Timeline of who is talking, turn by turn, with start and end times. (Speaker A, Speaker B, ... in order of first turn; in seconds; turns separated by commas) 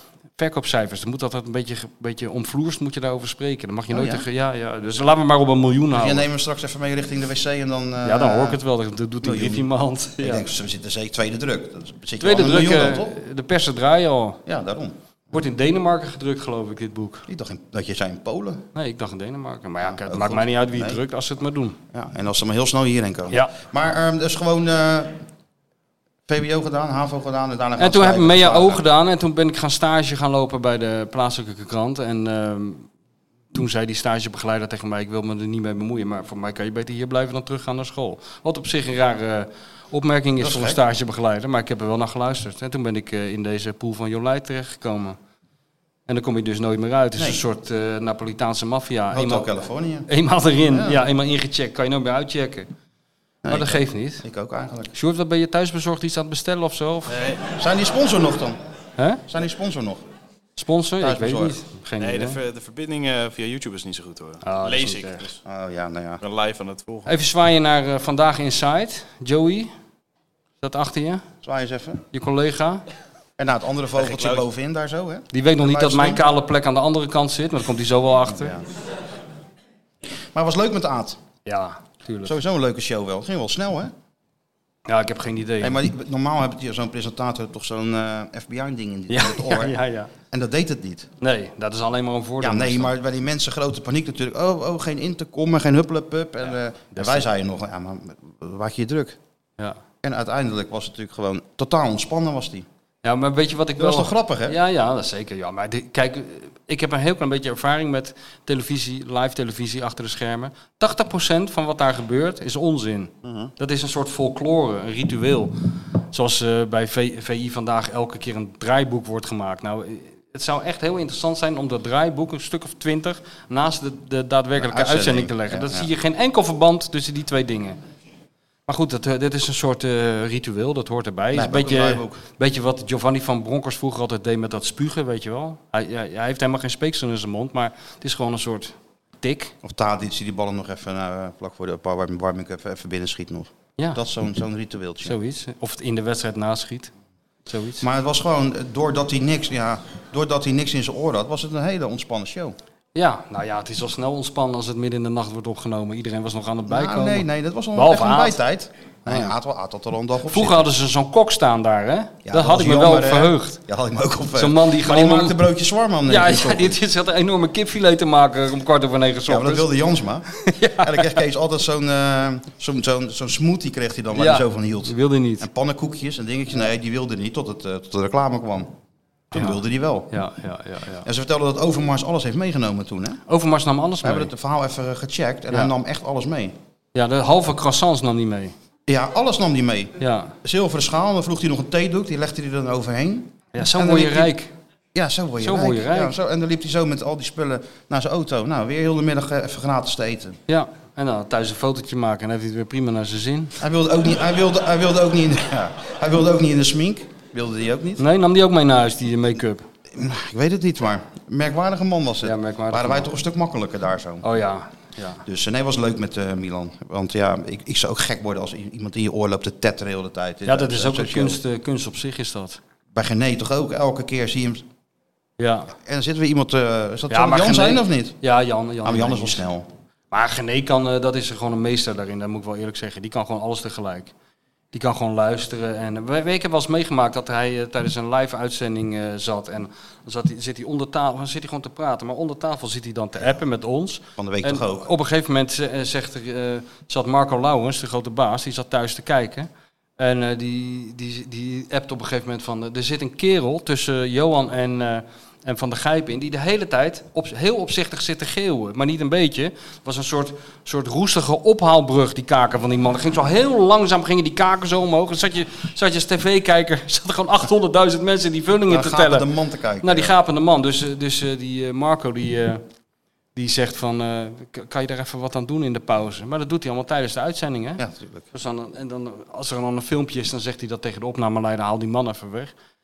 Speaker A: 0.4-6.2, Speaker B: 3.9-4.2, Speaker B: 6.0-8.6, Speaker A: 8.0-10.5, Speaker B: 9.2-9.7, Speaker B: 10.2-13.2, Speaker A: 12.2-14.4, Speaker B: 14.5-15.0, Speaker A: 15.3-17.3, Speaker B: 17.3-18.6, Speaker A: 18.7-21.8, Speaker B: 19.8-21.0, Speaker B: 21.9-25.2, Speaker B: 26.3-28.8, Speaker A: 27.8-32.9, Speaker A: 33.5-45.2, Speaker B: 40.4-40.8, Speaker A: 46.1-49.5, Speaker B: 49.1-50.1, Speaker A: 50.1-52.7, Speaker B: 50.7-51.0, Speaker B: 53.4-54.9, Speaker A: 53.5-54.2, Speaker A: 54.9-57.1, Speaker C: 57.1-57.4, Speaker B: 57.6-58.6, Speaker B: 59.3-60.0, Speaker A: 60.6-62.4, Speaker B: 61.0-61.6, Speaker C: 62.0-65.4, Speaker A: 64.4-65.3, Speaker B: 65.5-66.2, Speaker C: 66.2-67.1, Speaker A: 67.1-69.7, Speaker A: 70.6-71.2, Speaker B: 71.4-72.0, Speaker A: 72.1-72.8, Speaker B: 73.4-76.2, Speaker C: 74.0-74.4, Speaker A: 75.3-78.5, Speaker B: 78.3-78.7, Speaker B: 80.3-81.2, Speaker A: 81.5-82.3, Speaker B: 82.2-83.9, Speaker A: 84.9-85.8, Speaker B: 85.6-89.8, Speaker A: 89.1-90.1, Speaker B: 90.3-91.1, Speaker A: 91.2-92.9, Speaker B: 92.4-99.2, Speaker A: 96.9-97.2, Speaker B: 100.0-102.7, Speaker A: 103.0-115.5, Speaker B: 103.8-104.6, Speaker B: 113.2-113.5, Speaker A: 116.1-127.8, Speaker B: 124.6-125.9, Speaker A: 128.7-139.5, Speaker B: 131.3-132.2, Speaker B: 139.6-145.2, Speaker A: 145.0-146.9, Speaker A: 147.5-147.8, Speaker B: 147.8-152.6, Speaker A: 152.9-158.4, Speaker B: 156.7-160.7, Speaker A: 159.1-159.3, Speaker A: 160.3-163.6, Speaker B: 162.2-166.8, Speaker A: 164.4-165.4, Speaker A: 166.1-169.7, Speaker B: 169.3-170.2, Speaker A: 170.4-171.2, Speaker B: 170.8-178.7, Speaker A: 174.2-175.5, Speaker B: 179.3-180.1, Speaker A: 180.1-181.1, Speaker B: 181.1-183.2, Speaker A: 183.3-184.3, Speaker B: 184.0-186.6, Speaker A: 186.9-188.5, Speaker B: 188.9-194.3, Speaker A: 190.0-190.4, Speaker A: 193.5-194.5, Speaker B: 194.9-200.4, Speaker A: 195.4-196.1, Speaker A: 200.5-203.6, Speaker B: 203.6-208.0, Speaker A: 208.0-209.7, Speaker B: 209.9-214.2, Speaker A: 212.2-213.1, Speaker A: 214.2-215.2, Speaker B: 215.3-221.4, Speaker A: 220.5-222.6, Speaker B: 222.9-224.7, Speaker A: 225.4-225.7, Speaker B: 225.8-228.2, Speaker A: 227.1-229.4, Speaker B: 228.8-229.7, Speaker A: 230.1-234.1, Speaker A: 234.7-269.3, Speaker B: 244.2-244.9, Speaker B: 268.7-270.1, Speaker A: 269.8-272.6, Speaker A: 273.4-282.5, Speaker B: 277.8-278.2